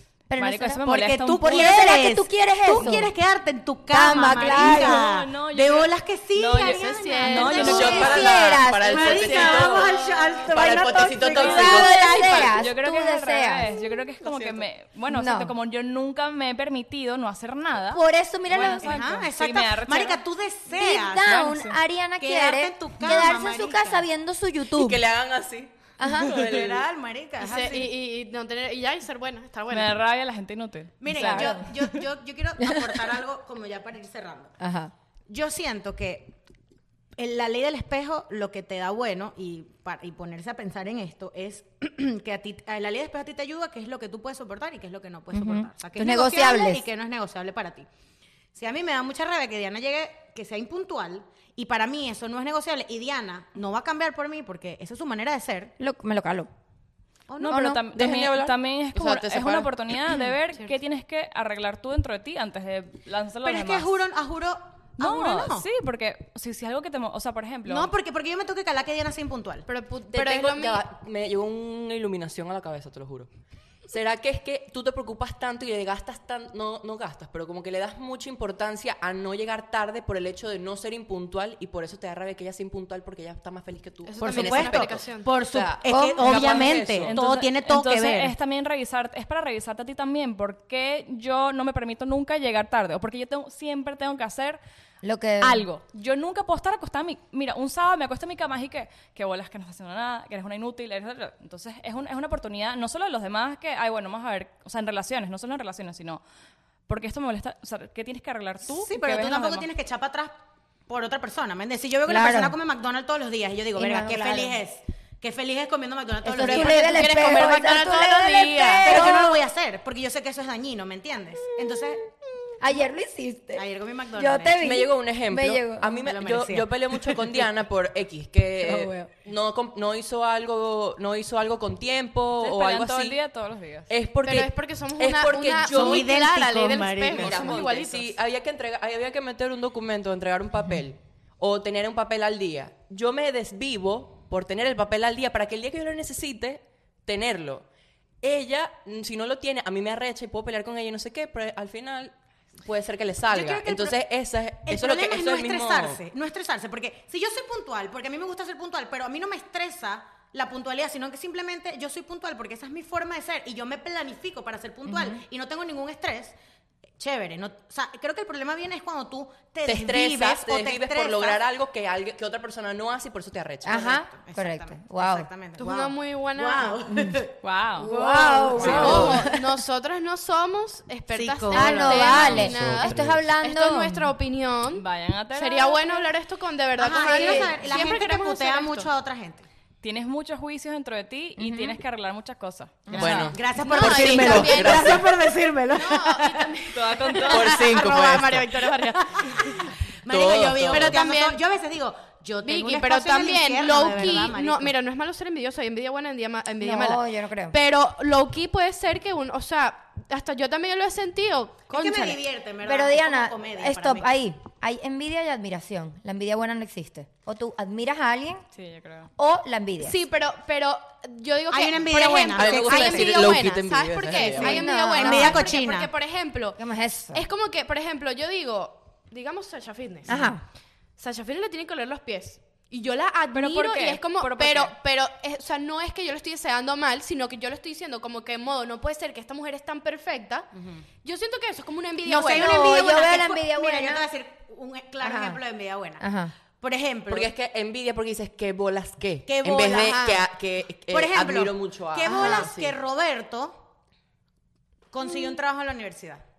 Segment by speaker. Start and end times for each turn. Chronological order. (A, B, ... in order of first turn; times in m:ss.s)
0:00.3-0:00.8 A
0:00.4-0:02.0 B
0:00.8-0:12.5 C
0:01.4-0:03.1 A
0:03.9-0:05.0 A
0:04.4-0:08.2 B
0:06.6-0:08.1 D
0:07.5-0:09.8 A
0:07.5-0:12.3 E
0:09.4-0:10.2 B
0:10.6-0:13.7 A
0:11.4-0:20.2 B
0:14.2-0:14.6 E
0:15.1-0:15.5 A
0:17.9-0:19.0 A
0:18.7-0:21.5 C
0:20.7-0:25.0 A
0:21.2-0:21.8 B
0:22.2-0:24.0 C
0:24.7-0:26.8 E
0:26.0-0:26.4 A
0:26.2-0:27.9 C
0:27.4-0:29.9 D
0:29.7-0:31.9 B
0:31.0-0:34.5 C
0:31.1-0:31.7 A
0:32.6-0:33.0 A
0:34.6-0:34.9 A
0:35.3-0:36.4 C
0:37.2-0:47.9 C
0:45.3-0:46.8 A
0:48.5-0:55.7 C
0:55.8-0:56.5 A
0:57.3-0:57.6 C
0:57.4-1:04.0 B
0:57.5-0:57.8 A
0:57.8-1:00.2 E
1:03.4-1:05.7 C
1:05.0-1:07.9 B
1:07.6-1:09.6 C
1:09.7-1:10.8 D
1:10.1-1:13.3 E
1:13.9-1:27.2 E
1:24.0-1:25.3 D
1:24.2-1:28.4 C
1:25.9-1:26.8 A
1:27.0-1:34.6 B
1:35.0-1:35.6 A
1:35.4-1:46.2 B
1:46.9-1:49.7 B
1:48.7-1:50.3 C
1:50.9-1:57.4 C
1:52.1-1:52.6 A
1:53.7-1:54.6 A
1:56.2-1:59.5 A
1:56.4-1:58.8 D
1:58.8-2:02.1 C
2:01.6-2:01.9 A
2:02.6-2:06.0 A
2:03.5-2:04.6 C
2:04.6-2:13.2 E
2:05.9-2:07.3 C
2:08.6-2:09.1 A
2:12.4-2:13.9 B
2:13.9-2:16.1 E
2:14.2-2:18.2 D
2:15.6-2:17.6 C
2:17.1-2:27.6 E
2:28.2-2:36.0 E
2:33.3-2:34.0 C
2:34.6-2:46.4 C
2:44.9-2:45.2 A
2:47.0-2:51.4 C
2:49.6-2:53.8 E
2:53.6-2:55.3 A
2:53.7-2:59.2 C
2:55.6-2:56.8 D
2:56.9-2:59.5 A
2:57.4-2:57.9 B
2:57.8-3:08.9 D
2:58.6-2:59.2 E
3:01.1-3:02.1 C
3:01.5-3:04.1 A
3:02.0-3:03.2 E
3:04.7-3:06.1 B
3:06.8-3:09.5 C
3:07.2-3:07.5 A
3:09.8-3:12.9 B
3:11.4-3:11.8 A
3:12.9-3:13.2 A
3:12.9-3:17.4 C
3:13.0-3:15.1 E
3:13.6-3:15.1 D
3:15.7-3:19.7 D
3:16.7-3:17.6 B
3:17.3-3:18.6 E
3:18.6-3:24.7 C
3:20.1-3:21.0 E
3:20.6-3:21.4 D
3:22.4-3:32.2 D
3:26.6-3:27.6 A
3:31.7-3:34.1 C
3:32.6-3:38.4 A
3:38.5-3:39.1 B
3:39.2-3:40.0 A
3:39.8-3:46.6 D
3:41.5-3:43.4 C
3:42.4-3:44.7 E
3:44.2-3:45.5 A
3:44.6-3:45.9 C
3:46.6-3:47.2 A
3:47.1-3:50.2 D
3:50.1-3:50.4 A
3:51.0-4:00.5 D
3:53.3-3:54.7 B
4:00.6-4:00.8 C
4:01.0-4:02.9 D
4:02.0-4:06.0 C
4:02.3-4:04.0 A
4:05.0-4:05.4 A
4:06.0-4:06.3 A
4:06.6-4:07.3 C
4:07.1-4:12.8 E
4:09.3-4:10.2 C
4:10.9-4:13.6 C
4:12.1-4:12.5 A
4:14.9-4:16.2 C